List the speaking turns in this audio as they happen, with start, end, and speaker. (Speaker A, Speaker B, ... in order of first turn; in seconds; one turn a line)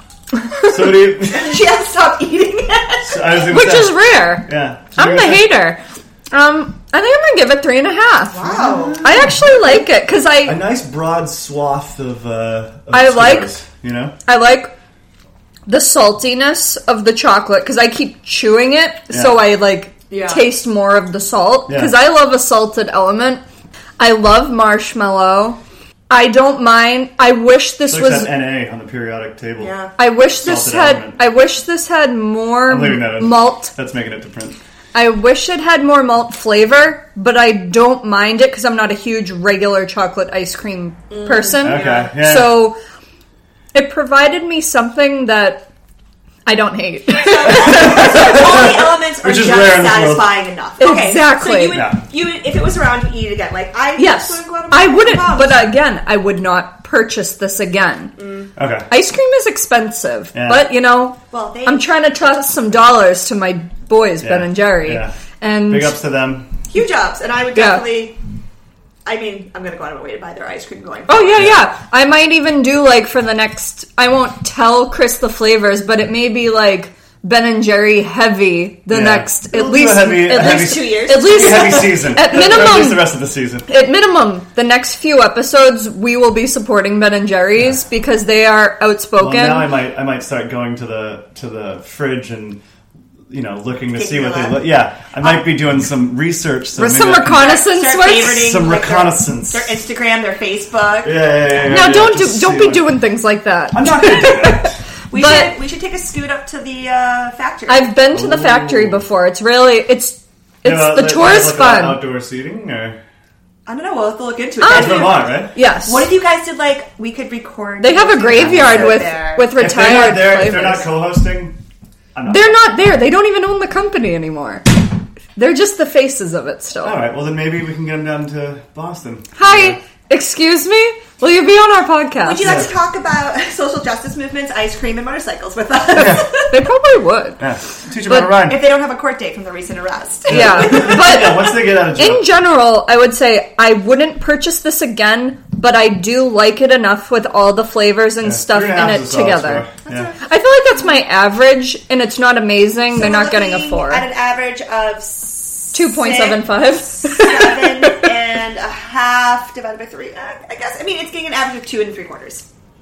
Speaker A: 0.3-0.9
Speaker B: 0.7-1.6
Speaker C: 1.2-3.4
Speaker B: 3.0-5.5
Speaker A: 3.5-5.8
Speaker A: 6.3-8.4
Speaker C: 8.3-9.1
Speaker B: 8.4-9.5
Speaker A: 9.0-10.6
Speaker B: 10.4-14.2
Speaker A: 12.9-13.5
Speaker A: 14.2-14.7
Speaker A: 15.7-23.4
Speaker B: 19.1-19.4
Speaker C: 20.1-20.4
Speaker B: 21.7-21.9
Speaker A: 24.0-28.3
Speaker B: 27.9-31.2
Speaker C: 29.6-29.9
Speaker A: 30.0-33.7
Speaker B: 32.7-34.6
Speaker A: 34.9-42.8
Speaker C: 41.1-42.1
Speaker B: 41.6-42.7
Speaker A: 43.7-45.7
Speaker A: 46.5-48.5
Speaker C: 47.1-55.7
Speaker B: 47.7-50.3
Speaker A: 50.8-51.8
Speaker B: 51.7-52.0
Speaker A: 54.0-58.1
Speaker C: 58.2-58.5
Speaker B: 58.5-58.9
Speaker A: 58.9-66.0
Speaker B: 60.3-60.7
Speaker C: 61.3-62.7
Speaker B: 64.2-65.1
Speaker B: 65.7-66.5
Speaker C: 66.7-68.2
Speaker A: 67.5-67.9
Speaker C: 69.0-71.4
Speaker A: 71.1-83.1
Speaker B: 71.3-71.6
Speaker B: 78.9-83.7
Speaker C: 80.0-81.8
Speaker A: 83.7-89.7
Speaker B: 89.2-92.6
Speaker B: 93.3-97.6
Speaker C: 93.9-94.6
Speaker A: 96.8-98.5
Speaker C: 97.2-101.2
Speaker B: 98.2-99.7
Speaker B: 101.0-102.9
Speaker A: 101.7-105.5
Speaker B: 103.7-104.8
Speaker C: 105.1-107.9
Speaker A: 107.7-112.0
Speaker B: 108.1-109.0
Speaker B: 110.6-113.0
Speaker C: 113.7-119.5
Speaker A: 114.6-116.1
Speaker B: 114.6-115.5
Speaker A: 117.8-120.9
Speaker B: 118.3-119.0
Speaker B: 119.5-121.6
Speaker B: 122.1-122.6
Speaker A: 122.3-124.7
Speaker A: 125.3-127.0
Speaker B: 126.8-129.8
Speaker A: 129.3-132.4
Speaker C: 132.2-136.6
Speaker B: 132.4-132.7
Speaker B: 135.9-136.3
Speaker A: 136.3-137.4
Speaker B: 137.4-138.6
Speaker C: 138.4-141.3
Speaker B: 140.3-142.2
Speaker A: 140.3-149.7
Speaker B: 148.2-150.1
Speaker C: 149.8-150.2
Speaker A: 150.2-154.0
Speaker C: 152.9-162.4
Speaker A: 155.7-158.1